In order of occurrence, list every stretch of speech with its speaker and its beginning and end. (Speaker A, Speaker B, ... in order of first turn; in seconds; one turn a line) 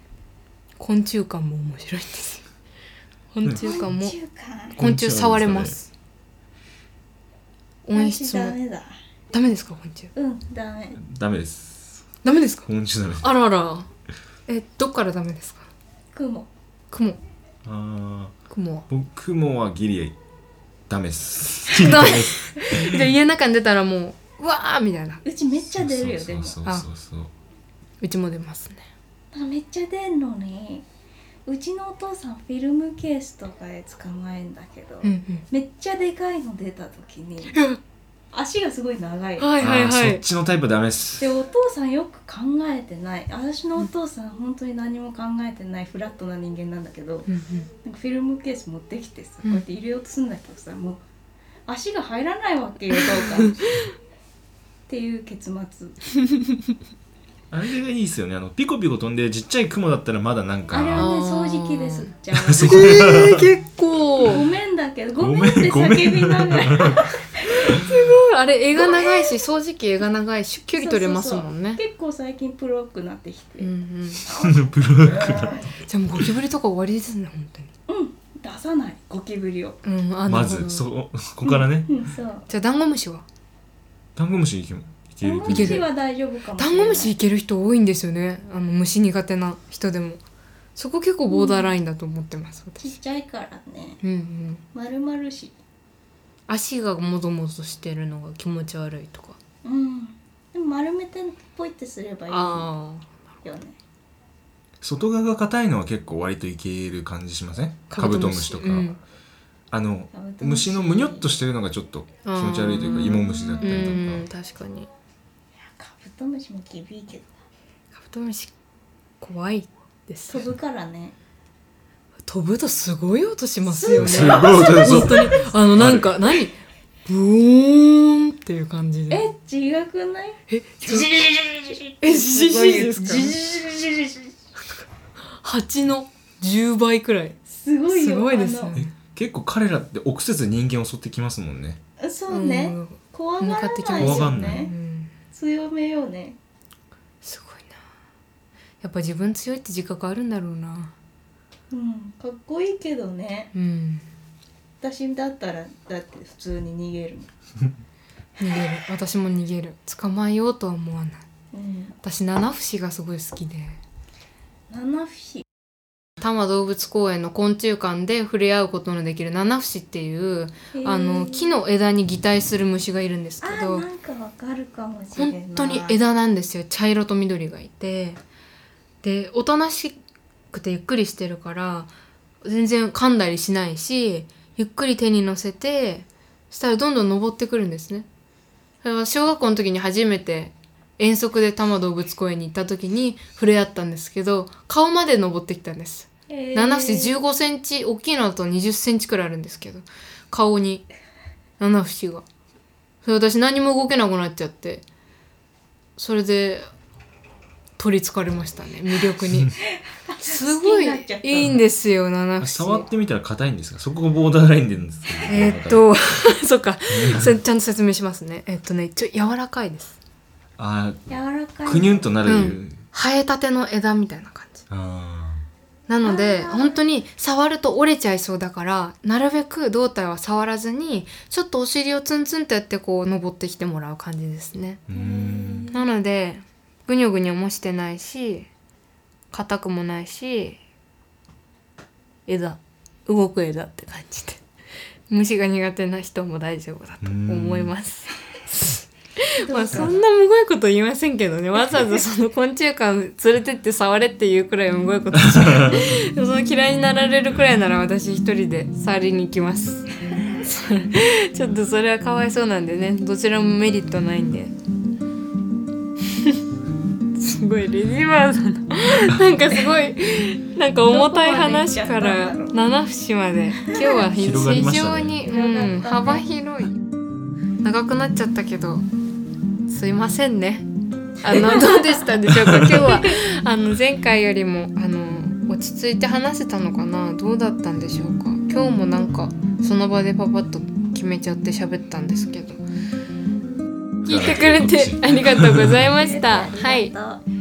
Speaker A: 0.8-2.4
Speaker A: 3.3-4.2
Speaker B: 3.6-4.8
Speaker C: 4.8-5.8
Speaker A: 4.8-5.9
Speaker A: 7.9-8.6
Speaker B: 8.0-9.0
Speaker A: 9.3-10.1
Speaker B: 10.2-11.0
Speaker C: 11.0-12.0
Speaker A: 12.2-12.7
Speaker C: 12.7-13.3
Speaker A: 13.2-13.9
Speaker A: 14.5-15.7
Speaker B: 16.1-16.5
Speaker A: 16.9-17.2
Speaker C: 17.6-18.4
Speaker A: 18.5-18.9
Speaker C: 18.9-20.2
Speaker C: 20.9-23.1
Speaker A: 21.8-25.2
Speaker B: 25.2-26.6
Speaker C: 25.7-27.3
Speaker A: 28.0-28.8
Speaker B: 29.3-30.9
Speaker B: 31.5-37.6
Speaker A: 35.0-35.4
Speaker A: 37.5-37.8
Speaker B: 38.3-39.5
Speaker A: 39.4-40.2
Speaker C: 39.6-41.4
Speaker B: 41.2-47.3
Speaker A: 47.3-47.7
Speaker B: 47.8-51.0
Speaker B: 51.7-53.6
Speaker A: 53.0-53.9
Speaker B: 54.9-56.0
Speaker C: 57.5-61.1
Speaker B: 60.7-63.1
Speaker A: 61.0-64.4
Speaker C: 62.3-63.5
Speaker B: 64.2-67.7
Speaker C: 65.2-67.1
Speaker A: 67.5-71.8
Speaker C: 67.6-68.1
Speaker B: 68.8-69.4
Speaker B: 70.8-73.7
Speaker A: 73.6-74.2
Speaker B: 74.2-75.7
Speaker C: 74.4-75.6
Speaker A: 75.9-77.7
Speaker B: 77.9-79.8
Speaker A: 79.8-80.9
Speaker C: 80.3-81.9
Speaker B: 81.5-82.5
Speaker A: 82.5-83.2
Speaker C: 84.2-85.8
Speaker B: 85.2-87.1
Speaker A: 85.5-85.9
Speaker A: 86.6-90.2
Speaker A: 90.8-92.9
Speaker B: 91.3-91.7
Speaker B: 92.8-94.0
Speaker A: 94.0-94.6
Speaker B: 94.7-95.5
Speaker A: 96.5-99.4
Speaker B: 99.6-102.7
Speaker A: 102.3-103.1
Speaker B: 103.4-103.8
Speaker C: 104.8-109.0
Speaker A: 107.9-109.0
Speaker C: 109.7-114.3
Speaker B: 110.1-111.3
Speaker A: 112.2-114.9
Speaker B: 113.0-114.0
Speaker B: 115.6-117.3
Speaker A: 118.0-118.5
Speaker A: 119.2-120.5
Speaker B: 120.3-121.2
Speaker A: 122.3-129.2
Speaker B: 123.7-125.5
Speaker C: 124.0-126.1
Speaker B: 129.1-134.3
Speaker A: 130.5-131.3
Speaker A: 132.0-133.4
Speaker A: 135.4-137.4
Speaker B: 137.5-138.8
Speaker A: 137.9-138.9
Speaker C: 138.8-141.8
Speaker B: 142.0-144.7
Speaker A: 142.3-145.1
Speaker C: 143.9-144.7
Speaker B: 145.3-146.4
Speaker A: 147.2-147.8
Speaker A: 148.8-150.9
Speaker B: 151.7-153.5
Speaker A: 153.5-154.0
Speaker B: 154.8-157.3
Speaker A: 158.4-161.3
Speaker B: 161.5-162.0
Speaker A: 162.0-163.8
Speaker B: 164.7-165.4
Speaker A: 166.2-173.8
Speaker B: 170.7-171.6
Speaker B: 173.4-176.0
Speaker A: 175.2-178.2
Speaker A: 179.0-180.0
Speaker A: 180.5-181.9
Speaker A: 182.4-188.1
Speaker A: 188.8-200.9
Speaker B: 196.3-197.2
Speaker A: 201.6-202.2
Speaker A: 203.0-204.8
Speaker A: 206.0-206.7
Speaker A: 207.8-209.6
Speaker B: 209.7-211.6
Speaker A: 210.2-212.9
Speaker C: 212.4-215.8
Speaker A: 215.3-220.0
Speaker C: 216.9-217.4
Speaker C: 220.6-221.0
Speaker B: 221.1-222.1
Speaker C: 221.6-222.8
Speaker A: 222.3-224.6
Speaker C: 224.7-225.4
Speaker A: 225.9-234.8
Speaker B: 226.0-226.8
Speaker C: 234.9-235.7
Speaker B: 234.9-235.8
Speaker A: 235.7-238.5
Speaker A: 239.3-240.6
Speaker A: 242.3-244.4
Speaker A: 245.1-264.5
Speaker C: 247.0-247.7
Speaker B: 249.4-250.0
Speaker C: 255.2-255.9
Speaker A: 267.1-276.8
Speaker B: 270.9-272.6
Speaker C: 274.1-275.2
Speaker B: 275.3-276.3
Speaker A: 277.6-278.8
Speaker A: 279.7-280.7
Speaker A: 281.2-292.6
Speaker B: 281.3-282.1
Speaker C: 282.5-282.8
Speaker C: 294.0-295.8
Speaker A: 294.1-296.9
Speaker B: 295.8-297.2